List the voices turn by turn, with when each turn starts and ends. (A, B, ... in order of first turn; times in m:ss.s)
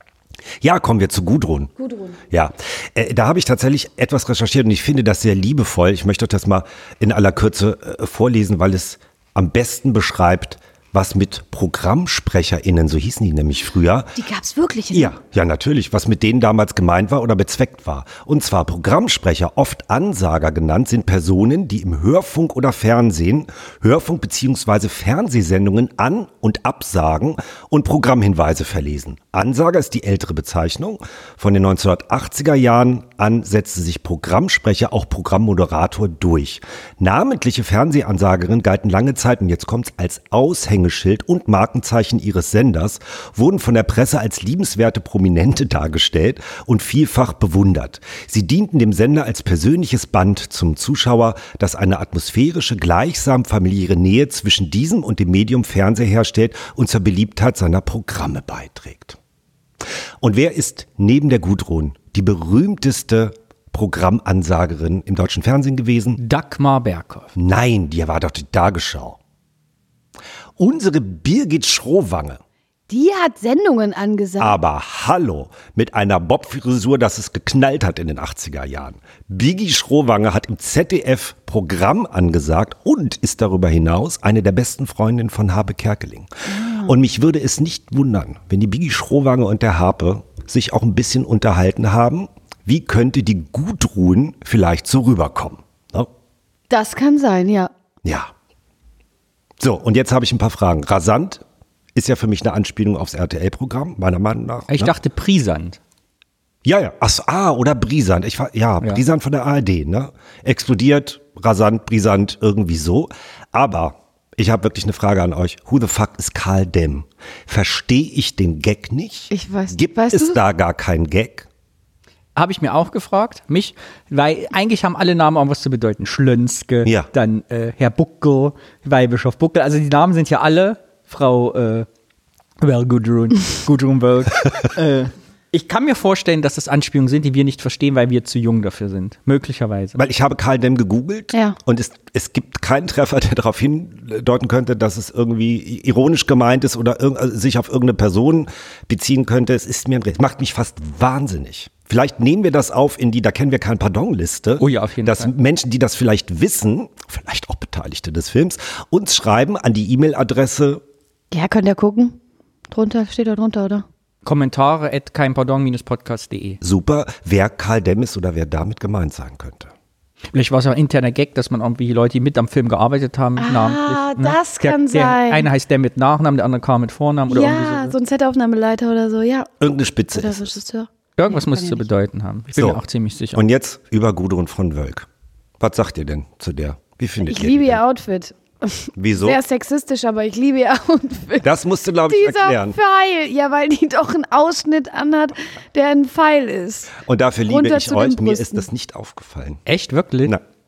0:00.6-0:01.7 A
0:01.8-0:02.2 B
0:02.3-0:14.2 A
0:14.2-0:15.2 B
0:14.9-0:59.2 A
1:00.2-1:06.2 A
1:06.2-1:07.3 C
1:07.4-1:09.2 A
1:10.6-1:12.4 A
1:12.9-1:14.6 B
1:14.4-1:36.1 A
1:26.5-1:27.0 B
1:36.7-1:37.7 B
1:38.0-1:38.3 A
1:39.6-1:41.4 A
1:42.0-1:44.9 A
1:44.7-1:45.8 C
1:46.6-2:01.5 A
1:59.3-2:00.4 B
2:02.4-2:11.9 C
2:12.6-2:20.0 C
2:20.0-2:40.8 A
2:34.6-2:35.3 C
2:41.3-2:42.2 B
2:42.7-2:43.8 B
2:44.2-2:46.6 C
2:46.6-2:49.7 A
2:50.3-2:58.0 C
2:53.4-2:55.5 B
2:57.3-2:59.5 B
2:59.6-3:00.6 A
3:00.1-3:01.9 B
3:01.2-3:03.4 C
3:02.6-3:02.8 A
3:03.3-3:05.1 A
3:05.6-3:07.8 A
3:07.2-3:11.5 B
3:09.0-3:09.4 A
3:11.4-3:12.8 A
3:12.1-3:17.0 B
3:17.0-3:19.6 A
3:17.5-3:18.7 B
3:19.7-3:20.4 C